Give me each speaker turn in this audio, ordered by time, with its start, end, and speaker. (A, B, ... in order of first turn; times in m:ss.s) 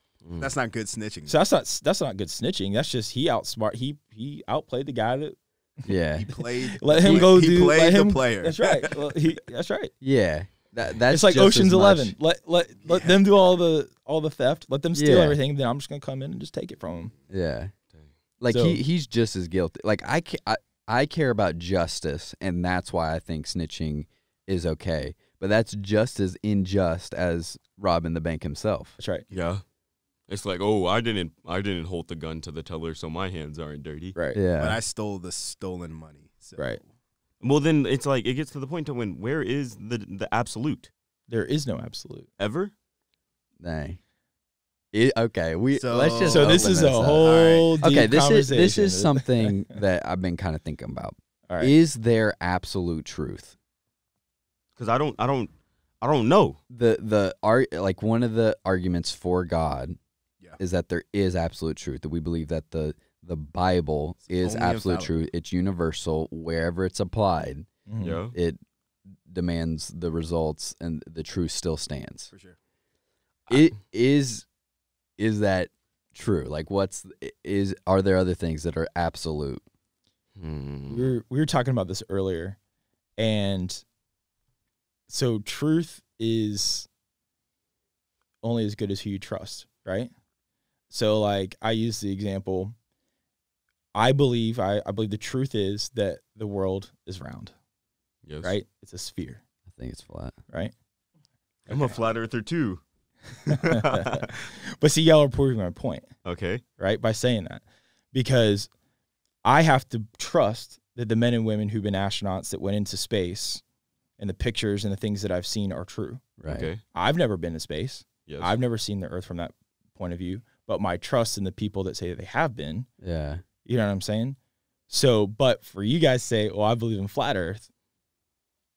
0:00.2-0:00.5 A
0:00.4-0:01.4 B
0:01.3-0:09.9 C
0:05.8-0:06.2 D
0:06.1-0:09.0 B
0:07.0-0:07.3 D
0:10.0-0:12.1 D
0:11.1-0:17.1 C
0:12.8-0:13.2 B
0:14.9-0:15.4 D
0:17.3-0:17.7 D
0:18.4-0:29.0 D
0:18.5-0:18.8 C
0:29.0-0:29.2 C
0:29.3-0:29.6 A
0:30.3-0:34.2 A
0:34.3-0:34.8 D
0:34.6-0:36.9 B
0:37.4-0:40.9 A
0:41.3-0:42.3 C
0:42.4-0:42.7 A
0:43.6-0:44.0 D
0:44.9-0:53.6 D
0:45.7-0:47.8 B
0:46.2-0:49.5 C
0:51.5-0:51.7 C
0:54.8-0:56.6 A
0:56.7-1:00.0 D
1:00.6-1:07.7 D
1:04.3-1:05.1 B
1:07.9-1:08.2 C
1:08.0-1:08.3 A
1:08.3-1:08.6 D
1:09.3-1:12.3 D
1:13.5-1:14.4 D
1:15.2-1:19.6 D
1:20.4-1:21.1 A
1:20.9-1:22.6 C
1:23.2-1:23.8 C
1:25.1-1:26.9 C
1:28.4-1:30.1 C
1:30.9-1:32.8 C
1:33.9-1:37.5 C
1:38.2-1:38.5 A
1:38.4-1:39.4 C
1:39.7-1:40.4 D
1:41.7-1:42.0 B
1:41.7-1:42.8 A
1:43.3-1:44.3 A
1:43.5-1:46.1 C
1:46.2-1:46.6 A
1:46.8-1:48.7 C
1:49.4-1:53.6 C
1:54.2-1:56.2 C
1:56.4-1:56.7 D
1:56.5-1:56.8 A
1:56.9-2:02.9 C
1:58.3-1:58.5 A
2:03.0-2:03.4 D
2:03.6-2:04.4 C
2:04.9-2:07.7 C